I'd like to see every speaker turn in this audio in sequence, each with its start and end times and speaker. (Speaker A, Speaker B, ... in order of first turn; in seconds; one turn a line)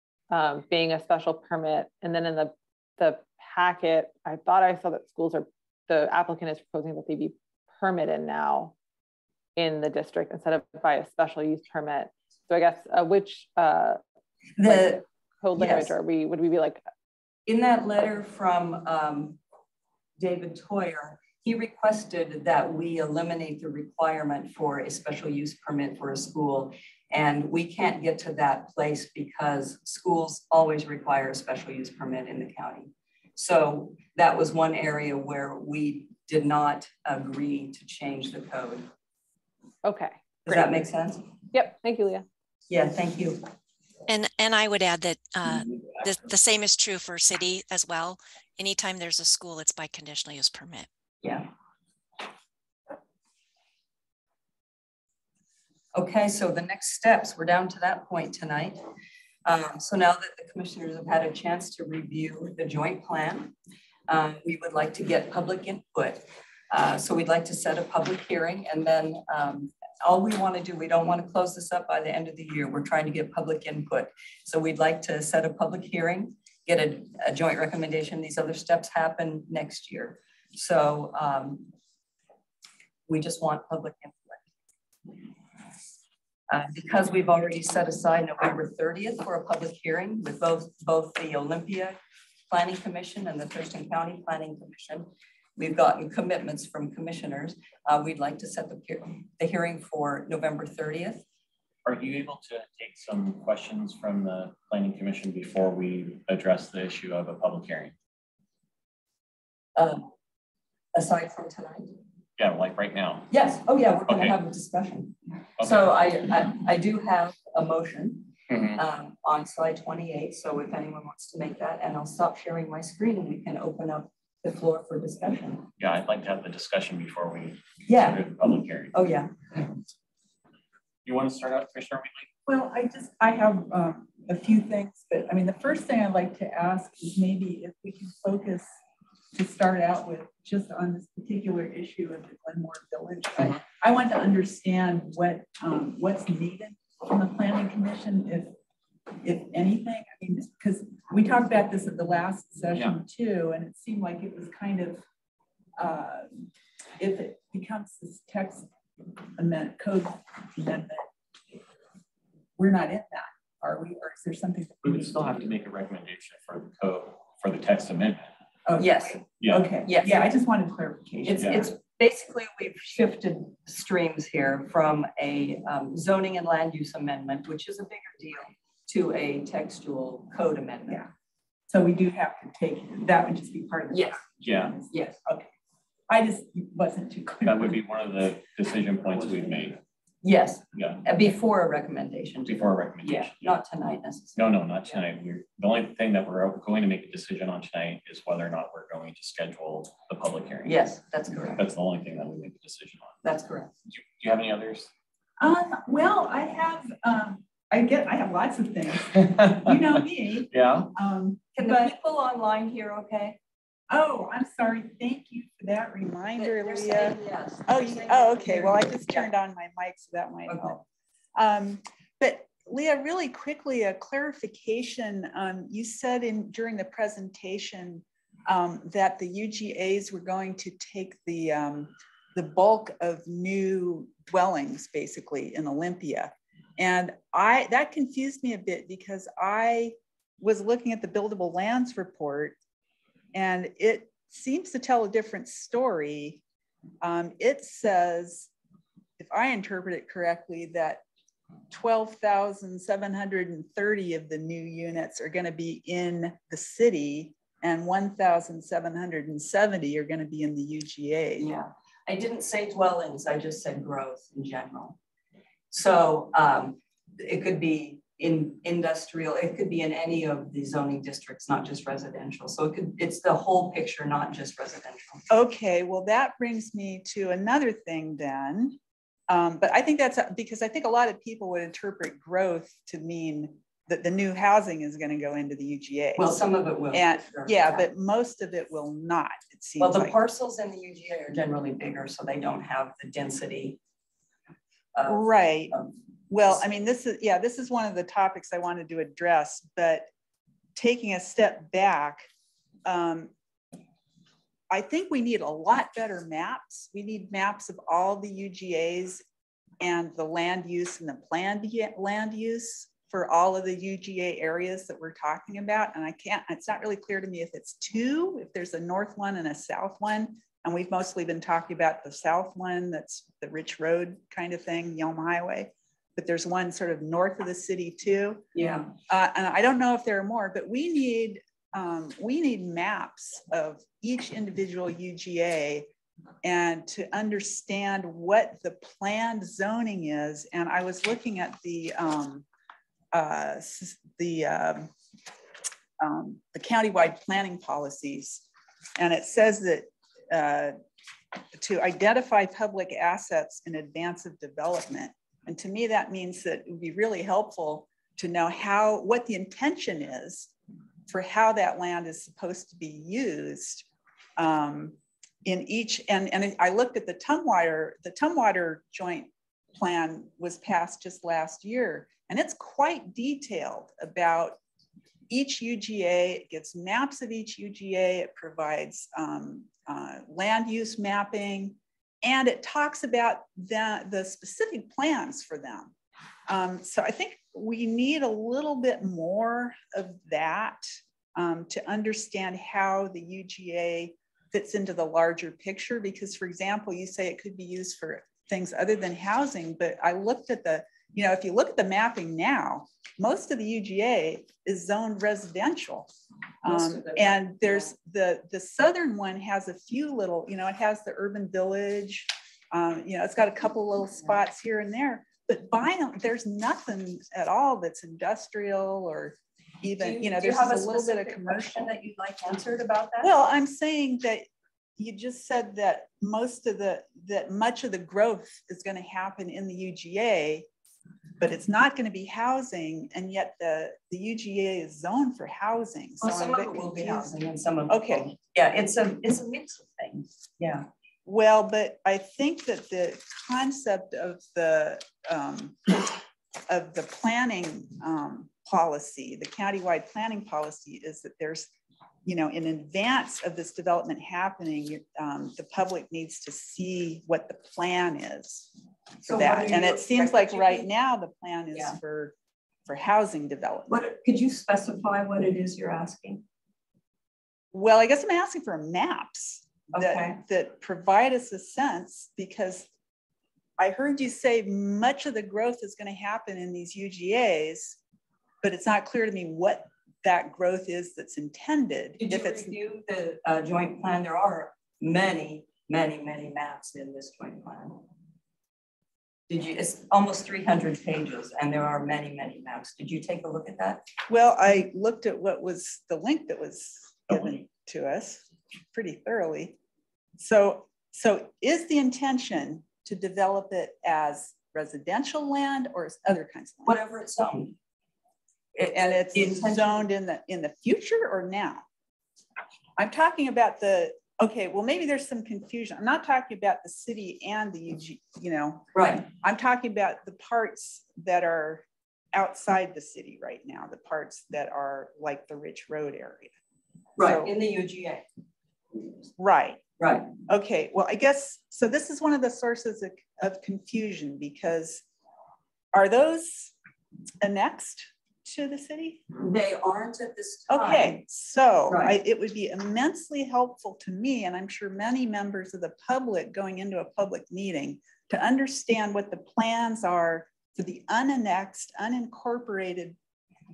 Speaker A: 0.3-8.7
Speaker A: 9.6-14.0
Speaker B: 14.6-15.0
Speaker A: 14.6-16.8
Speaker B: 15.6-15.9
Speaker B: 17.5-19.4
Speaker B: 20.2-38.9
Speaker A: 39.8-40.9
Speaker B: 40.5-41.3
Speaker A: 41.5-42.2
Speaker B: 42.7-43.4
Speaker C: 44.1-50.9
Speaker B: 55.9-58.8
Speaker B: 59.4-63.5
Speaker B: 64.1-81.7
Speaker B: 83.1-84.4
Speaker B: 86.5-92.0
Speaker B: 92.5-101.2
Speaker D: 101.8-107.9
Speaker B: 109.8-110.1
Speaker B: 110.9-111.9
Speaker D: 112.4-113.3
Speaker B: 113.3-125.7
Speaker D: 114.1-114.3
Speaker D: 115.6-115.9
Speaker D: 118.5-118.8
Speaker D: 125.8-128.9
Speaker B: 127.9-128.2
Speaker B: 128.9-129.3
Speaker D: 131.0-132.3
Speaker E: 132.5-138.7
Speaker E: 139.3-148.5
Speaker D: 143.4-143.6
Speaker E: 149.2-155.0
Speaker E: 155.8-156.4
Speaker E: 157.0-158.7
Speaker E: 159.3-161.1
Speaker E: 162.6-165.5
Speaker D: 164.8-168.3
Speaker E: 168.7-171.7
Speaker B: 168.8-169.2
Speaker D: 169.4-169.8
Speaker B: 169.8-170.3
Speaker B: 171.2-181.1
Speaker D: 171.4-171.7
Speaker E: 181.7-185.5
Speaker B: 183.9-184.2
Speaker D: 184.4-184.8
Speaker B: 184.9-185.2
Speaker E: 186.1-187.8
Speaker D: 187.4-189.8
Speaker E: 189.2-189.5
Speaker B: 190.2-194.4
Speaker D: 190.7-191.0
Speaker D: 192.4-193.5
Speaker D: 194.3-200.8
Speaker B: 200.7-201.6
Speaker D: 201.6-203.2
Speaker B: 203.2-203.7
Speaker D: 203.9-204.9
Speaker E: 205.4-211.9
Speaker D: 209.1-210.9
Speaker B: 211.5-213.4
Speaker E: 213.9-220.8
Speaker B: 216.4-219.3
Speaker B: 220.5-220.8
Speaker E: 221.3-242.6
Speaker E: 243.3-246.4
Speaker E: 247.0-248.5
Speaker E: 249.2-251.0
Speaker E: 251.7-261.5
Speaker B: 261.4-265.0
Speaker B: 265.7-275.2
Speaker E: 275.3-278.8
Speaker E: 279.3-286.4
Speaker B: 286.2-287.9
Speaker E: 286.9-290.2
Speaker B: 289.8-293.8
Speaker B: 294.9-295.9
Speaker E: 295.1-295.7
Speaker E: 296.3-300.1
Speaker E: 300.8-302.2
Speaker E: 302.9-303.3
Speaker E: 304.7-309.2
Speaker E: 309.8-328.4
Speaker B: 328.5-328.9
Speaker E: 329.1-335.9
Speaker E: 336.4-342.4
Speaker E: 343.1-344.9
Speaker E: 346.0-348.4
Speaker E: 349.0-350.7
Speaker E: 351.6-360.5
Speaker E: 361.1-363.9
Speaker E: 364.4-374.6
Speaker E: 375.3-385.9
Speaker E: 386.5-406.1
Speaker E: 406.6-421.8
Speaker B: 406.6-407.9
Speaker B: 420.0-423.3
Speaker E: 423.2-424.5
Speaker E: 425.0-430.7
Speaker E: 431.4-437.3
Speaker B: 436.2-440.9
Speaker E: 437.9-438.3
Speaker E: 441.2-446.2
Speaker E: 446.7-451.7
Speaker E: 452.2-458.7
Speaker B: 459.2-460.9
Speaker E: 459.2-462.3
Speaker B: 461.7-462.0
Speaker E: 462.9-464.0
Speaker B: 463.9-466.4
Speaker E: 467.7-472.9
Speaker B: 469.9-470.4
Speaker E: 473.8-478.0
Speaker E: 478.6-482.7
Speaker B: 482.2-488.0
Speaker B: 489.5-494.0
Speaker E: 494.3-499.8
Speaker E: 500.4-507.0
Speaker B: 506.8-507.8
Speaker B: 508.7-510.1
Speaker E: 508.9-511.8
Speaker E: 513.0-526.5
Speaker B: 518.9-519.2
Speaker B: 527.2-528.2
Speaker E: 527.2-527.5
Speaker E: 529.4-529.8
Speaker B: 530.0-530.3
Speaker E: 530.4-535.0
Speaker E: 535.9-536.7
Speaker E: 537.4-539.3
Speaker B: 539.4-541.2
Speaker E: 540.7-553.1
Speaker B: 541.9-542.2